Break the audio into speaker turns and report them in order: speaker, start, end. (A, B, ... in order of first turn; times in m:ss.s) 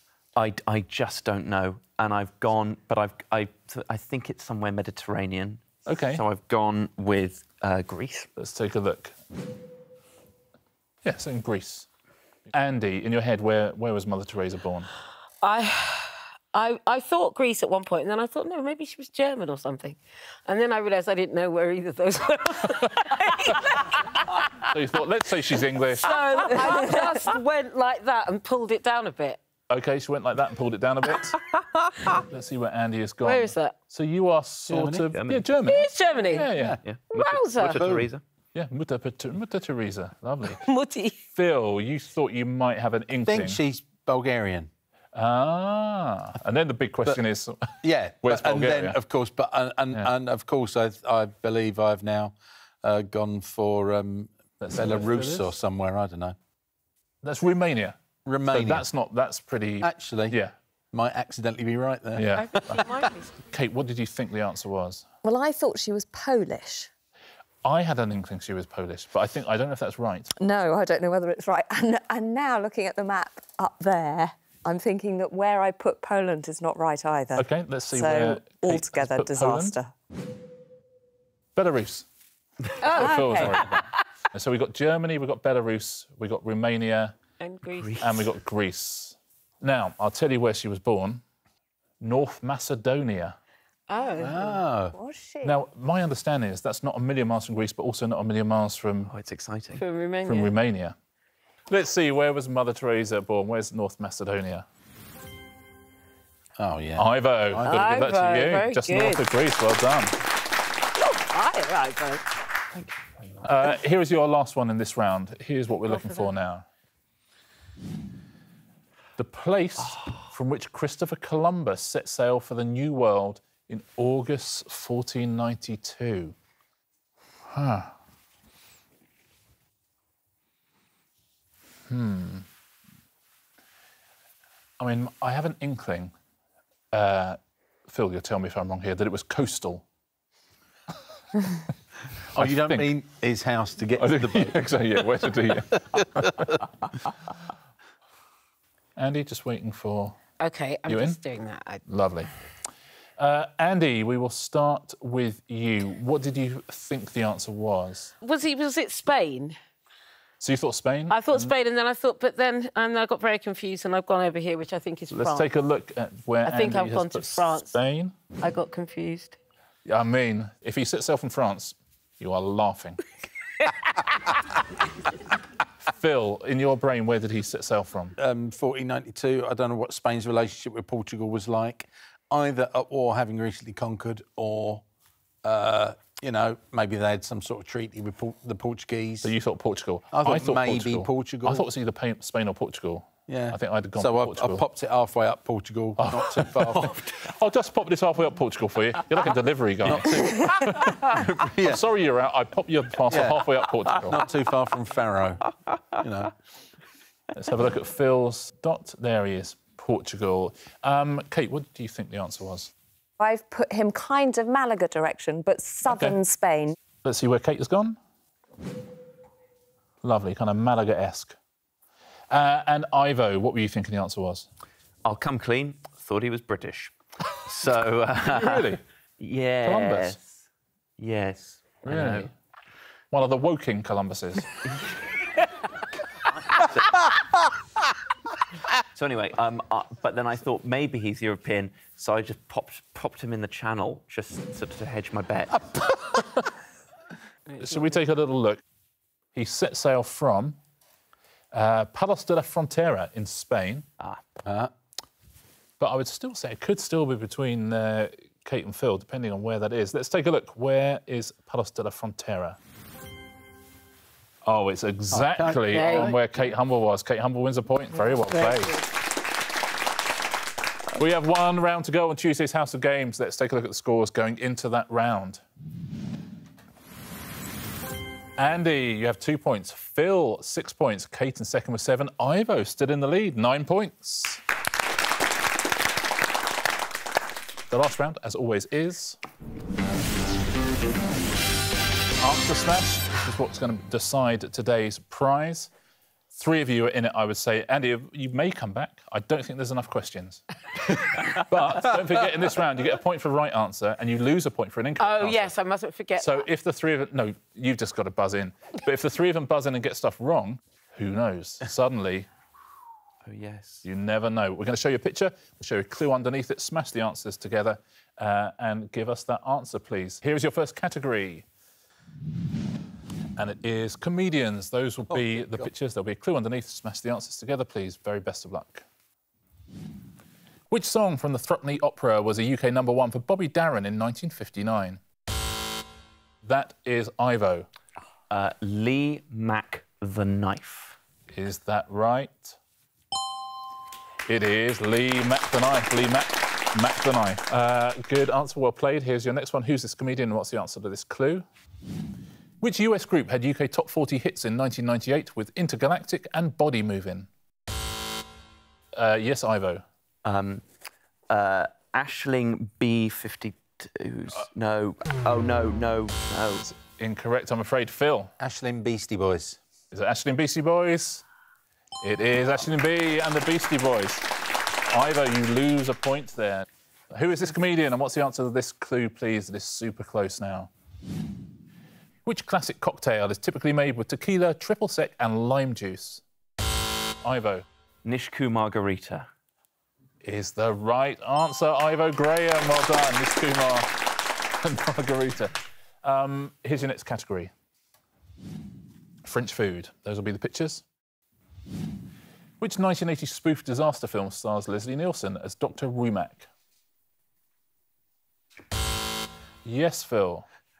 0:00.4-0:08.3 A
0:05.9-0:06.2 B
0:08.4-0:09.2 B
0:11.0-0:11.9 B
0:12.5-0:14.9 B
0:15.4-0:24.7 C
0:23.0-0:23.7 B
0:24.6-0:26.2 B
0:25.9-0:29.4 C
0:29.7-0:31.4 B
0:32.1-0:36.8 B
0:33.2-0:33.8 C
0:34.7-0:35.1 D
0:35.1-0:35.4 A
0:35.6-0:36.5 C
0:36.6-0:36.8 D
0:36.8-0:38.2 A
0:37.1-0:37.8 C
0:37.8-0:38.1 D
0:38.6-0:40.6 B
0:40.6-0:41.2 C
0:41.3-0:43.6 B
0:43.3-0:44.7 D
0:45.1-0:49.0 B
0:47.8-0:56.4 D
0:54.6-0:55.5 B
0:57.2-1:00.5 B
0:58.2-0:58.9 D
0:59.8-1:00.4 D
1:00.9-1:02.8 D
1:02.2-1:02.8 B
1:02.4-1:03.4 C
1:03.4-1:05.1 B
1:05.2-1:06.9 E
1:07.6-1:10.3 B
1:10.3-1:19.9 E
1:17.4-1:19.8 B
1:21.6-1:22.1 B
1:22.8-1:23.7 C
1:22.8-1:27.2 B
1:22.8-1:23.6 E
1:27.4-1:28.3 C
1:27.8-1:28.3 A
1:28.0-1:31.2 B
1:32.0-1:33.4 B
1:33.9-1:34.6 C
1:34.2-1:35.0 D
1:34.9-1:35.6 E
1:35.4-1:39.1 B
1:39.1-1:39.8 A
1:39.8-1:40.6 C
1:40.2-1:41.0 B
1:41.7-1:44.7 B
1:46.6-1:47.8 D
1:47.0-1:50.1 B
1:47.6-1:49.3 C
1:51.0-1:52.3 C
1:52.7-1:53.4 A
1:53.4-1:56.7 B
1:55.9-1:56.3 C
1:59.2-2:06.4 B
2:07.5-2:07.9 B
2:11.9-2:12.5 B
2:14.8-2:16.1 B
2:16.9-2:19.8 B
2:22.3-2:22.9 B
2:22.4-2:24.7 D
2:24.0-2:26.6 B
2:25.9-2:26.5 D
2:29.0-2:30.2 B
2:30.4-2:31.8 C
2:30.9-2:31.2 B
2:31.9-2:32.3 B
2:33.2-2:38.1 B
2:38.2-2:39.6 C
2:40.4-2:41.5 B
2:41.1-2:45.5 C
2:45.1-2:48.2 B
2:46.4-2:47.8 C
2:48.4-2:49.4 C
2:49.8-2:53.0 B
2:55.8-2:58.2 B
2:58.2-3:04.8 D
3:05.4-3:09.3 D
3:09.2-3:14.6 B
3:10.1-3:11.7 D
3:13.3-3:17.0 D
3:16.0-3:24.2 B
3:19.8-3:21.8 D
3:23.1-3:26.3 D
3:27.3-3:32.7 B
3:33.2-3:36.8 E
3:35.9-3:36.2 B
3:37.0-3:38.0 B
3:40.0-3:41.4 B
3:42.3-3:44.5 B
3:45.0-3:50.3 A
3:48.3-3:48.8 B
3:49.6-3:50.2 B
3:51.0-3:52.3 A
3:51.9-3:52.3 B
3:53.1-3:54.5 B
3:56.4-3:57.1 A
3:58.9-4:05.9 A
4:07.5-4:07.9 C
4:07.6-4:08.6 B
4:09.3-4:10.6 B
4:11.5-4:13.9 B
4:14.4-4:14.7 D
4:15.8-4:22.6 B
4:24.4-4:28.8 B
4:25.1-4:26.2 D
4:25.7-4:26.1 C
4:31.0-4:35.4 B
4:38.4-4:44.4 B
4:47.7-4:49.2 B
4:52.2-4:55.7 B
4:56.3-5:05.6 B
5:05.0-5:06.5 C
5:06.2-5:12.3 B
5:13.3-5:13.8 A
5:13.8-5:21.5 B
5:23.4-5:28.8 B
5:25.1-5:25.7 D
5:30.7-5:35.0 B
5:36.4-5:37.7 B
5:38.3-5:41.0 A
5:41.3-5:42.6 B
5:44.3-5:51.5 B
5:52.6-5:57.3 B
5:58.9-5:59.8 B
6:00.2-6:00.6 A
6:01.3-6:06.7 A
6:06.6-6:08.3 B
6:08.4-6:09.6 D
6:09.9-6:11.2 B
6:12.0-6:14.3 B
6:14.9-6:20.7 B
6:22.3-6:26.2 B
6:27.2-6:27.6 B
6:28.0-6:29.3 A
6:30.2-6:33.9 B
6:34.6-6:37.5 B
6:39.2-6:40.8 B
6:42.6-6:46.5 B
6:49.6-6:50.5 B